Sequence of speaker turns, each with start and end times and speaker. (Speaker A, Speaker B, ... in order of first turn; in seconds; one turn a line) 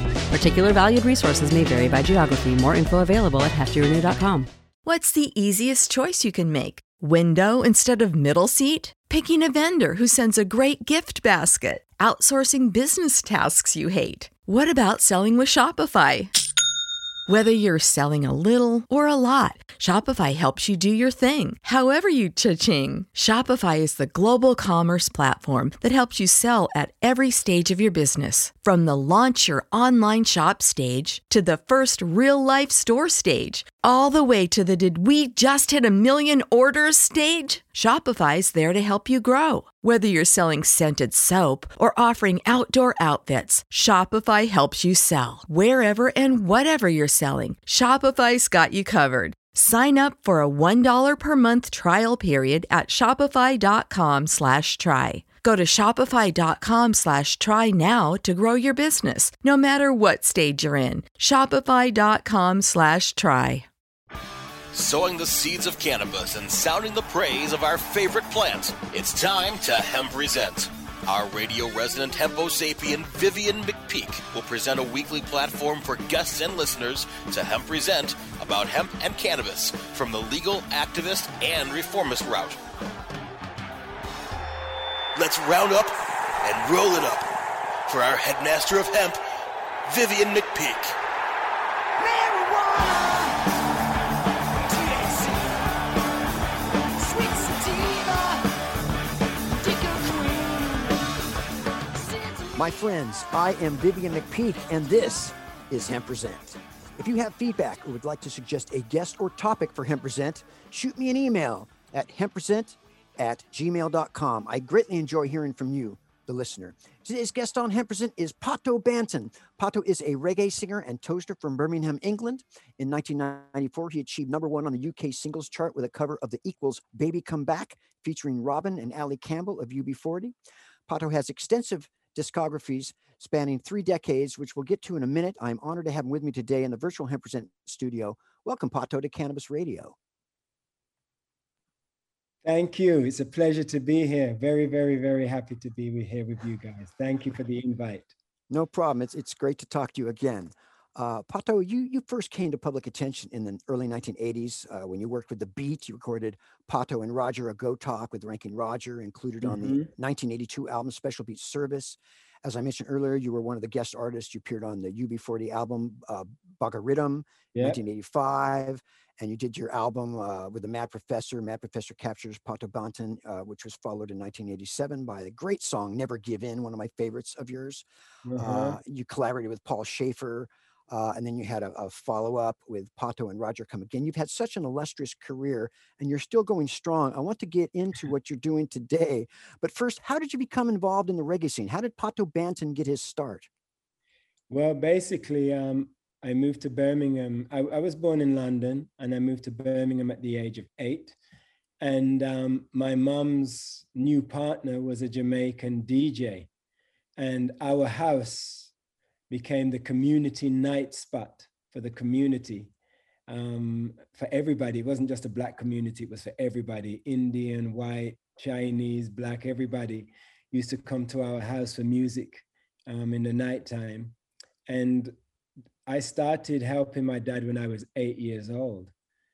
Speaker A: 0.3-4.5
Speaker B: 4.8-16.3
Speaker B: 17.3-63.7
Speaker C: 64.7-82.6
Speaker C: 85.1-87.3
Speaker C: 87.8-89.2
Speaker C: 89.8-91.0
Speaker D: 92.0-93.2
Speaker D: 97.2-98.3
Speaker D: 99.7-100.4
Speaker D: 102.5-130.3
Speaker D: 130.9-139.9
Speaker E: 142.4-148.1
Speaker D: 148.5-177.8
Speaker E: 159.4-159.9
Speaker E: 167.5-167.8
Speaker E: 178.2-178.8
Speaker D: 178.4-193.5
Speaker E: 194.5-201.2
Speaker E: 201.8-206.5
Speaker E: 207.2-208.7
Speaker E: 209.3-212.7
Speaker E: 213.3-224.2
Speaker E: 224.7-225.1
Speaker E: 225.8-228.9